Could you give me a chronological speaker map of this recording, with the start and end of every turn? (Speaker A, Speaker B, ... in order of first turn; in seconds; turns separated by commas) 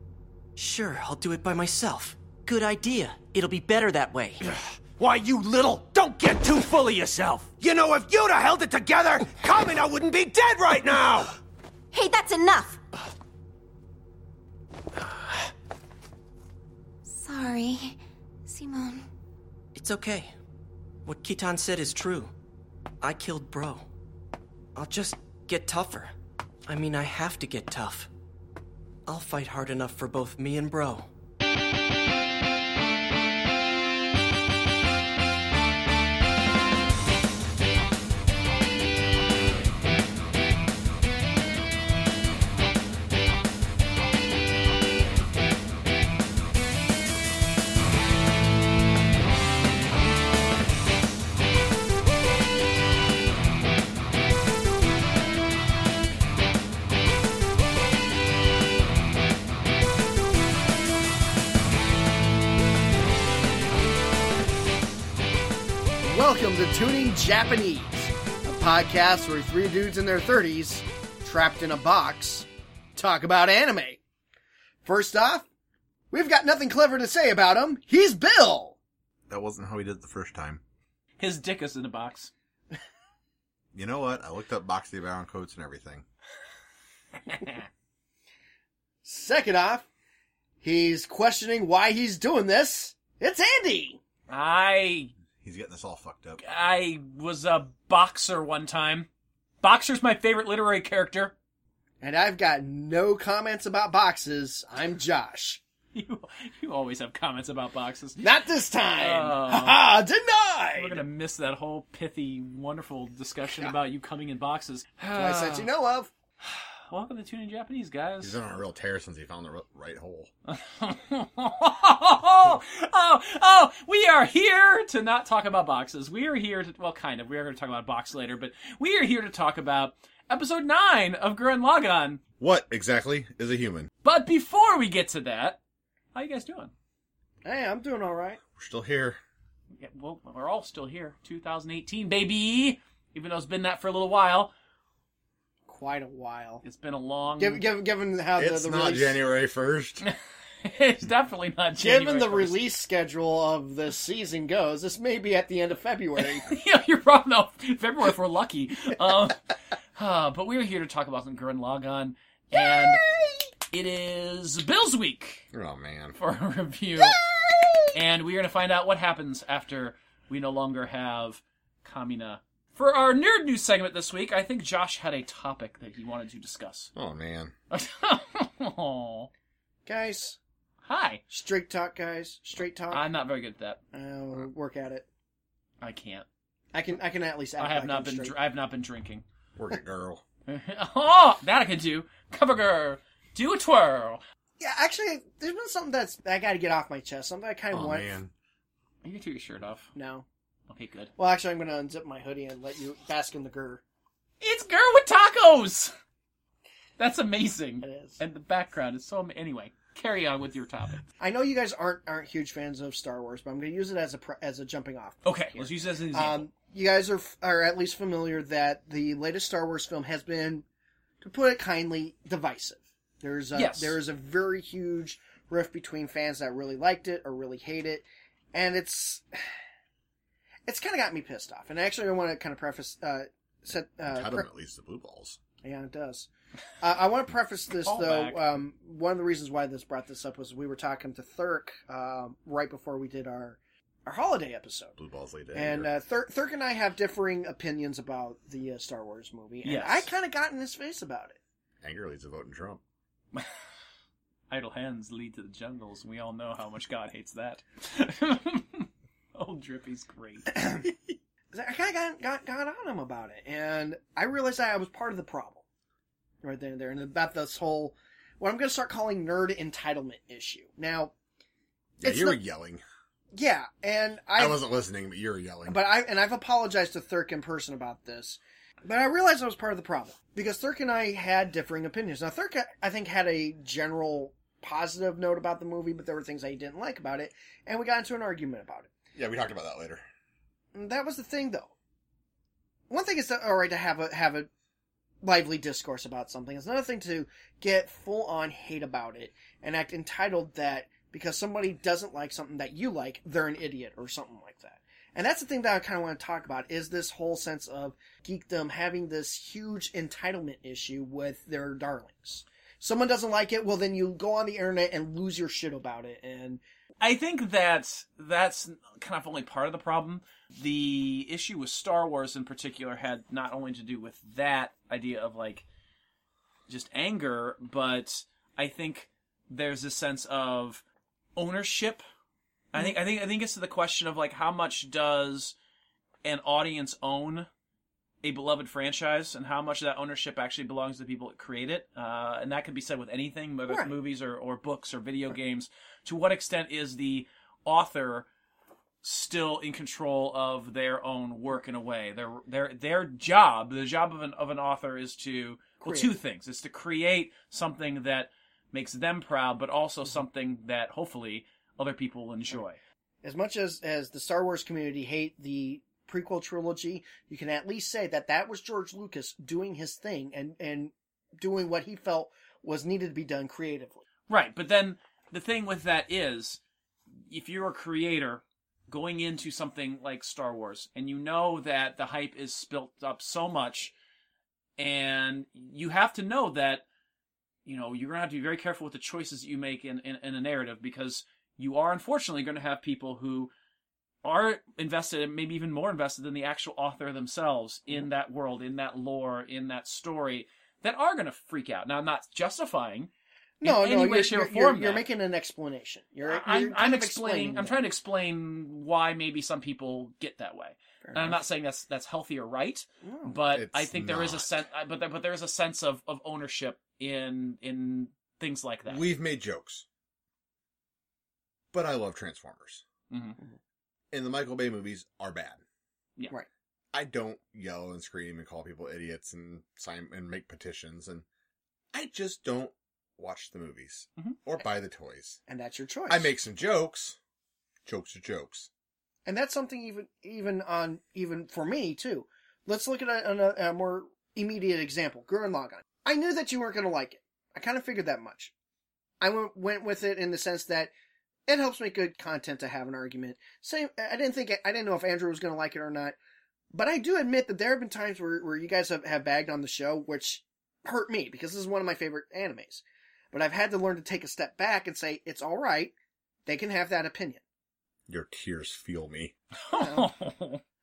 Speaker A: 0.6-4.4, Speaker B: 5.0-11.3, Speaker C: 11.9-12.8, Speaker C: 17.1-19.1, Speaker A: 19.7-20.3, Speaker A: 21.0-22.3, Speaker A: 23.0-23.9, Speaker A: 24.7-26.1, Speaker A: 26.6-28.1, Speaker A: 29.1-31.1, Speaker D: 66.0-74.0, Speaker D: 74.8-75.4, Speaker D: 76.1-78.8, Speaker E: 79.3-80.6, Speaker F: 81.2-82.3, Speaker E: 83.7-86.0, Speaker F: 87.3-87.6, Speaker D: 89.0-89.9, Speaker D: 90.6-94.0, Speaker F: 94.3-95.1, Speaker E: 95.4-96.4, Speaker F: 96.4-99.1, Speaker F: 99.6-101.3, Speaker D: 102.0-105.6, Speaker F: 105.9-108.2, Speaker D: 108.2-111.0, Speaker F: 109.0-109.8, Speaker F: 110.7-115.7, Speaker D: 115.1-116.1, Speaker F: 116.4-118.4, Speaker E: 118.2-120.3, Speaker F: 120.5-132.2, Speaker E: 132.4-133.9, Speaker F: 134.0-135.6, Speaker F: 136.1-136.7, Speaker D: 137.4-138.4, Speaker E: 138.6-139.2, Speaker F: 139.8-144.5, Speaker D: 145.7-146.6, Speaker F: 146.6-147.7, Speaker D: 147.4-149.2, Speaker E: 148.3-150.1, Speaker F: 150.0-152.6, Speaker D: 151.8-156.5, Speaker F: 156.2-159.4, Speaker F: 159.9-163.0, Speaker D: 162.6-163.5, Speaker F: 163.7-165.4, Speaker E: 165.5-166.2, Speaker F: 166.1-167.2, Speaker D: 167.2-167.8, Speaker F: 167.9-176.9, Speaker E: 176.9-177.5, Speaker F: 177.7-179.3, Speaker D: 179.8-180.4, Speaker F: 180.8-181.2, Speaker D: 181.3-183.0, Speaker F: 182.9-183.8, Speaker D: 183.9-185.1, Speaker F: 185.8-186.2, Speaker D: 186.7-188.3, Speaker F: 187.6-189.2, Speaker E: 189.6-190.2, Speaker F: 190.5-194.2, Speaker D: 194.6-198.1, Speaker E: 197.7-198.3, Speaker F: 199.0-199.9, Speaker D: 199.9-200.2, Speaker F: 200.7-201.1, Speaker D: 201.2-203.8, Speaker F: 204.4-205.9, Speaker F: 207.0-211.0, Speaker D: 207.8-208.2, Speaker D: 211.2-220.6, Speaker F: 215.2-216.4, Speaker D: 221.2-229.4, Speaker F: 223.5-224.0, Speaker D: 230.7-234.5, Speaker E: 234.1-235.4, Speaker D: 235.6-236.3, Speaker D: 236.8-244.9, Speaker F: 237.8-238.4, Speaker E: 245.0-245.9, Speaker D: 245.5-251.4, Speaker F: 249.6-250.1, Speaker E: 251.8-252.8, Speaker F: 254.5-260.5, Speaker D: 260.5-260.9, Speaker D: 261.5-265.6, Speaker D: 266.4-271.1, Speaker E: 272.0-272.8, Speaker D: 272.0-272.4, Speaker D: 273.3-274.6, Speaker E: 274.4-275.8, Speaker D: 275.7-288.9, Speaker E: 289.1-290.0, Speaker D: 290.7-291.7, Speaker D: 292.9-294.5, Speaker D: 295.2-316.6, Speaker F: 317.0-325.6, Speaker F: 326.7-330.8, Speaker F: 331.4-332.0, Speaker F: 332.7-335.5, Speaker F: 336.2-337.5, Speaker F: 338.2-348.3, Speaker F: 349.0-362.8, Speaker D: 355.8-356.1, Speaker D: 363.2-374.0, Speaker F: 374.3-376.6, Speaker F: 377.3-383.9, Speaker F: 384.8-386.8, Speaker F: 387.6-393.5, Speaker F: 394.2-403.1, Speaker D: 403.6-407.8, Speaker F: 403.6-405.0, Speaker F: 406.2-419.0, Speaker D: 411.0-411.4, Speaker D: 413.0-413.4, Speaker E: 413.5-414.6, Speaker E: 418.9-419.9, Speaker E: 421.7-422.8, Speaker F: 423.1-423.4, Speaker E: 424.1-425.6, Speaker E: 426.9-431.2, Speaker E: 431.9-435.4, Speaker D: 435.5-436.3, Speaker E: 436.1-437.2, Speaker E: 437.8-438.7, Speaker D: 439.2-448.5, Speaker D: 449.2-450.9, Speaker D: 451.5-456.1, Speaker D: 456.7-465.9, Speaker D: 466.4-467.4, Speaker E: 468.1-469.3, Speaker F: 469.6-470.6, Speaker D: 469.8-470.1